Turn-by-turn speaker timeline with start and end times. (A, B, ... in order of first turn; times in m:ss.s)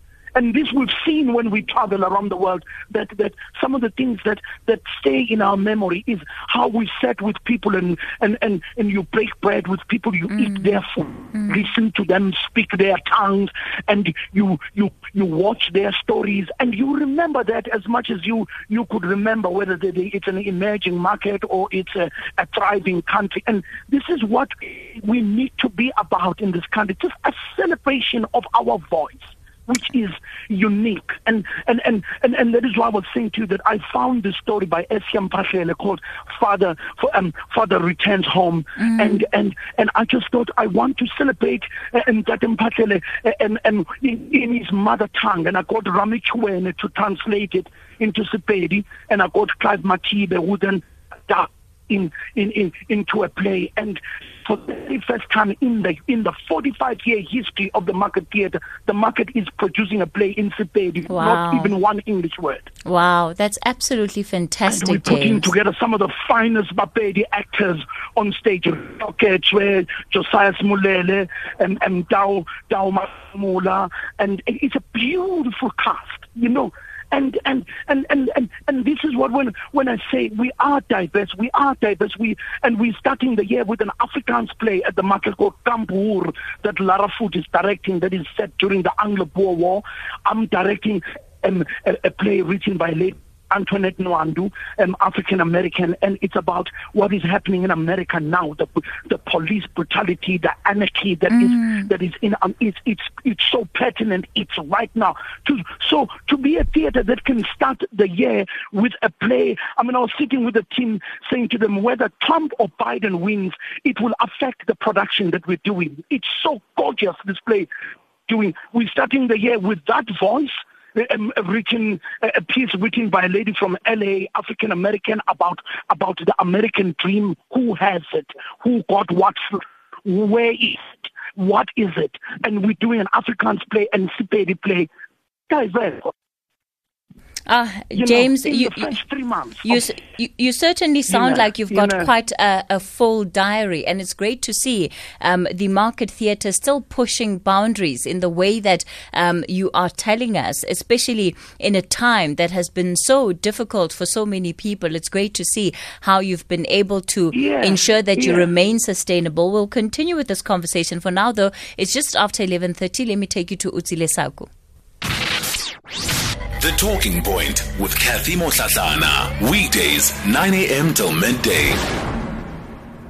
0:00.4-1:02.7 A
1:01.1-1:01.7 B
1:02.8-1:05.5 B
1:04.7-1:57.7 A
1:41.5-1:41.9 B
1:58.3-2:14.9 A
2:15.5-2:16.1 A
2:17.5-2:19.0 B
2:17.9-2:19.8 A
2:19.6-2:44.5 B
2:21.1-2:22.1 A
2:37.3-2:38.5 A
2:46.6-2:51.8 C